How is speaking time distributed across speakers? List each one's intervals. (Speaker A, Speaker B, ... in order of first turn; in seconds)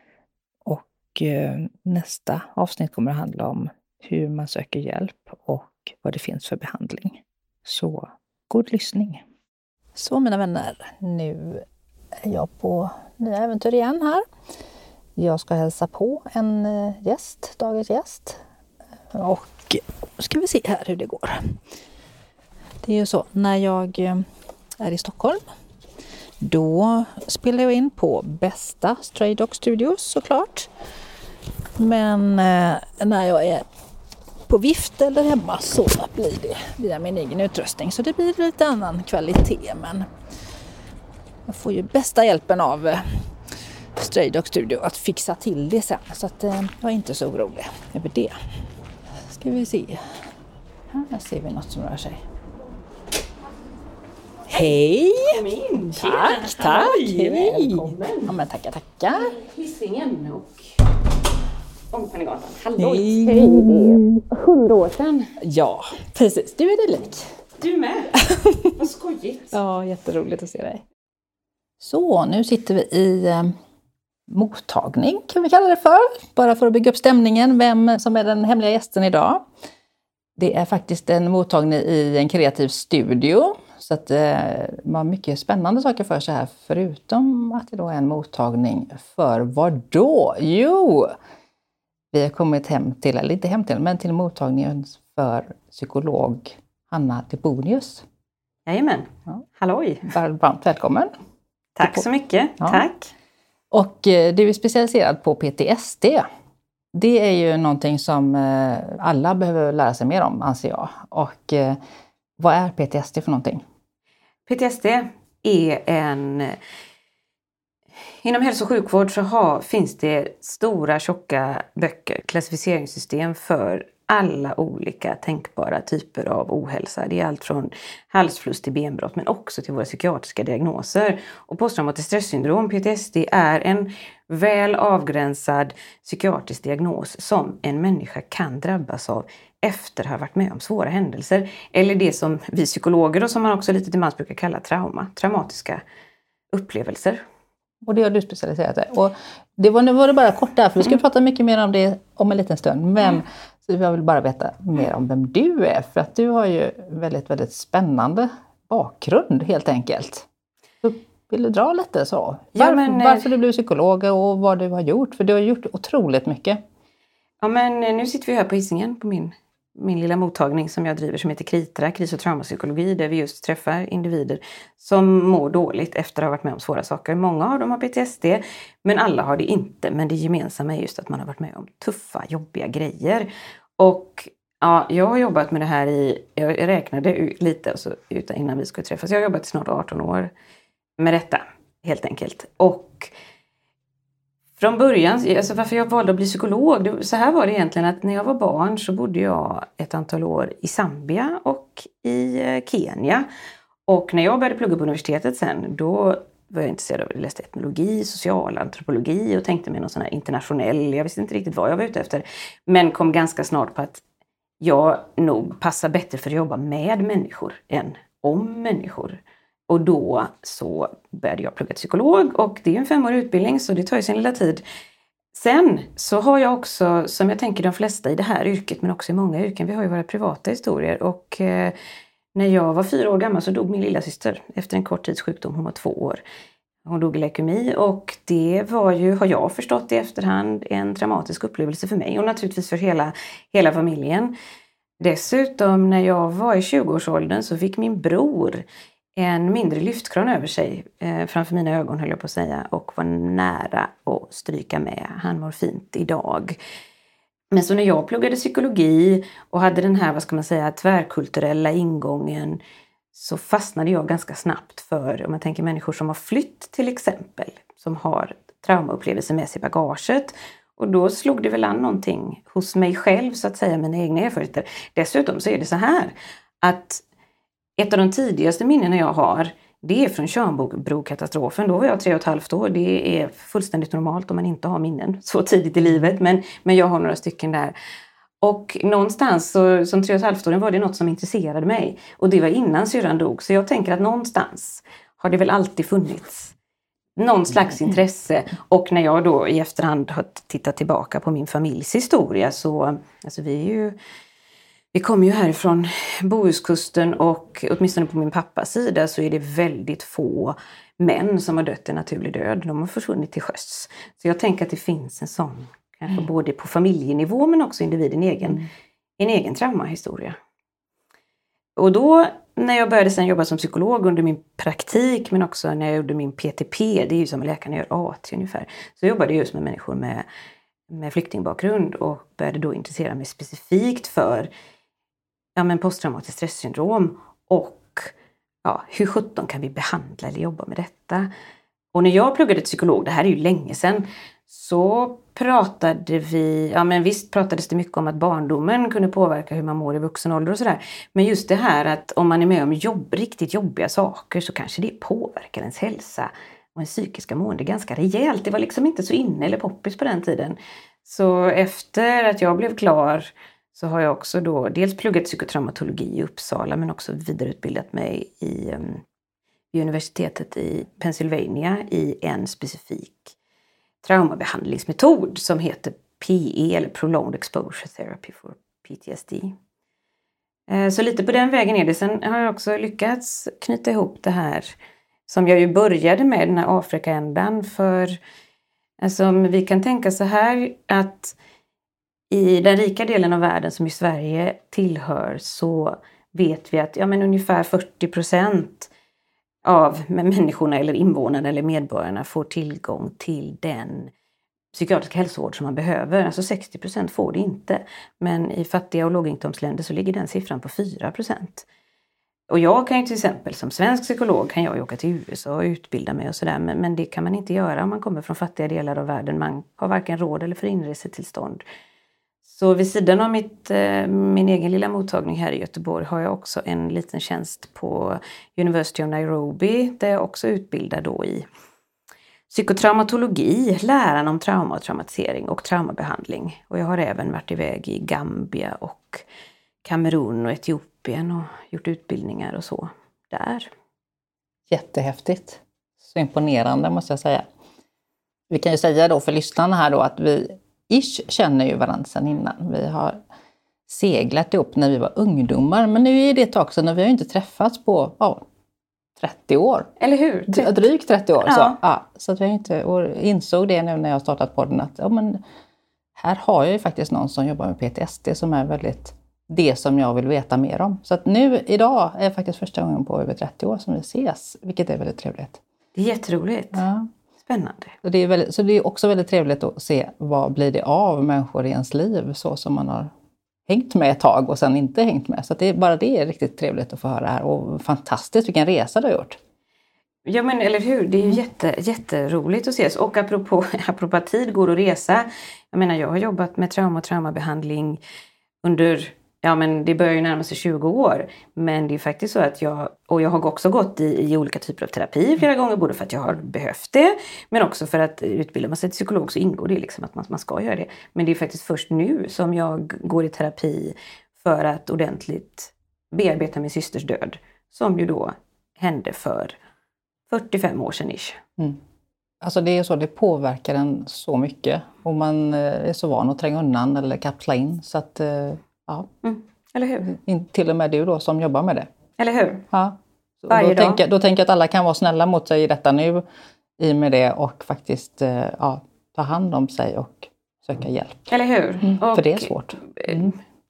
Speaker A: 0.7-9.2, 9.9-11.7, 12.2-14.2, 15.2-18.4, 19.1-21.6, 22.8-24.2, 24.8-25.4, 26.4-30.7, 31.8-33.6, 34.5-40.1, 41.5-43.3, 44.0-48.4, 49.3-50.2, 50.9-52.2, 54.5-59.4, 62.8-64.2, 65.4-67.3, 68.1-68.8, 69.5-70.8, 71.8-73.5, 74.3-79.4, 80.4-91.1, 92.1-98.0, 100.0-101.1, 103.7-106.2, 106.9-111.8, 112.4-113.7, 147.8-160.3, 160.8-166.6, 444.7-447.5, 448.5-453.2, 453.9-458.4, 459.2-459.9, 460.5-465.4, 466.2-475.6, 476.7-477.1, 478.0-483.1, 483.7-489.4, 522.4-529.1, 530.1-531.9, 532.7-536.2, 536.8-541.3, 541.8-543.3
Speaker B: 55.3-58.3, 59.1-60.7, 61.9-65.4, 67.6-68.1, 68.8-69.5, 98.7-100.1, 101.8-103.1, 114.5-116.6, 118.2-145.8, 146.5-147.2, 162.5-163.3, 167.4-190.3, 191.0-193.1, 194.6-203.3, 203.9-214.0, 214.6-224.6, 225.3-231.7, 232.3-236.2, 236.8-244.3, 245.0-248.7, 249.2-256.6, 257.5-262.6, 263.1-277.0, 277.8-287.8, 288.4-296.6, 297.2-304.0, 304.9-318.7, 319.2-320.4, 321.8-330.3, 330.9-334.5, 335.6-338.1, 338.6-341.3, 341.9-369.0, 369.7-373.4, 374.0-379.6, 380.7-384.8, 385.3-388.2, 389.0-391.4, 392.3-398.9, 399.6-404.1, 404.7-411.7, 412.5-421.6, 422.4-431.5, 432.5-439.2, 439.8-443.7, 460.0-460.8, 461.4-461.8, 476.0-476.8, 477.4-477.9, 490.3-498.0, 498.6-519.6, 520.3-521.4, 529.2-530.1, 532.2-532.6, 533.5-534.0, 541.3-543.3